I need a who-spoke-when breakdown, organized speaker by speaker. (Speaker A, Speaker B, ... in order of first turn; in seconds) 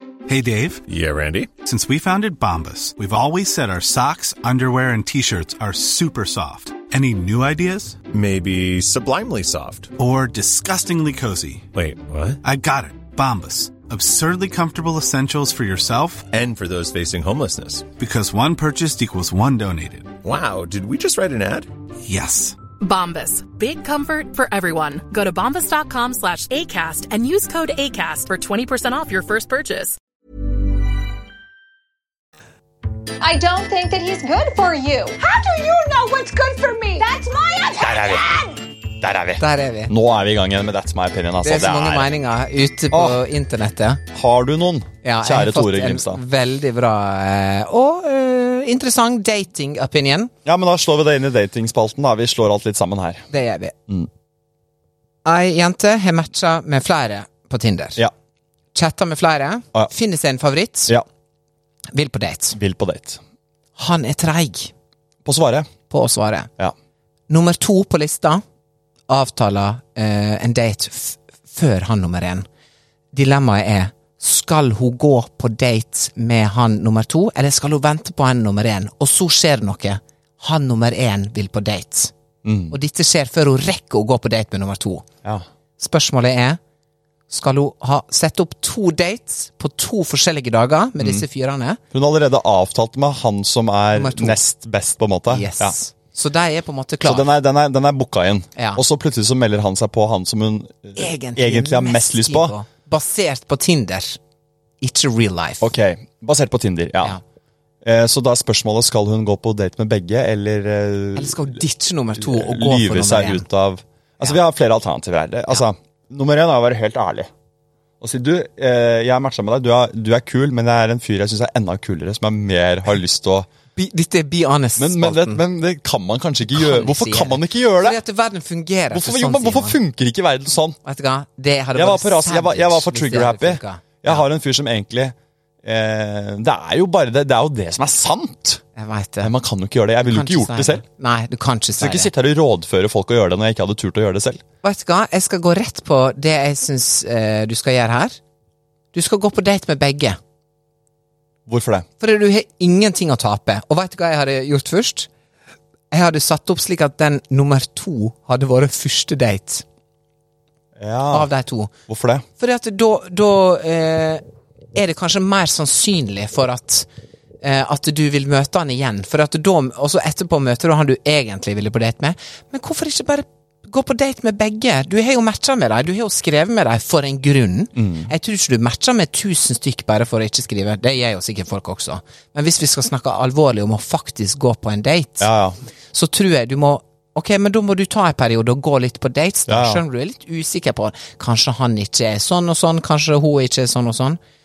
Speaker A: 0.3-0.8, 1.6-8.0, 10.0-11.7, 12.4-16.3, 18.0-20.1, 22.0-22.6
Speaker B: 0.9-1.5, 8.1-9.9, 11.8-12.4, 16.3-17.9, 20.2-21.7
Speaker C: 22.8-30.0
Speaker D: 33.2-38.5
Speaker E: 37.8-38.3, 39.0-42.1, 42.9-43.2, 44.1-46.2, 50.5-53.3, 62.5-63.2, 65.2-65.7, 82.4-82.8, 91.0-91.2, 91.9-95.8, 97.0-102.6, 105.6-107.2, 107.8-111.6, 112.2-117.3, 118.0-123.5, 124.8-128.0, 128.9-130.8, 131.8-138.6, 139.2-140.8, 141.8-144.4, 151.5-151.9, 160.8-161.3, 161.9-162.2, 177.8-178.1, 185.2-185.6, 189.5-189.8
Speaker F: 39.4-39.9, 41.4-44.0, 45.0-50.3, 53.3-53.8, 55.2-58.0, 58.7-60.9, 61.9-62.6, 63.8-64.7, 65.9-66.5, 67.3-68.4, 69.1-72.5, 73.1-82.1, 82.7-85.0, 85.8-86.6, 87.3-91.8, 93.9-94.4, 95.3-97.3, 98.6-98.8, 101.0-104.2, 104.8-105.7, 111.2-113.5, 123.8-125.4, 126.5-129.8, 130.8-134.2, 138.8-139.3, 140.1-142.1, 144.6-148.2, 148.9-150.2, 152.0-155.1, 155.9-159.6, 161.1-161.7, 162.4-164.2, 164.8-166.9, 167.4-185.3, 185.9-194.2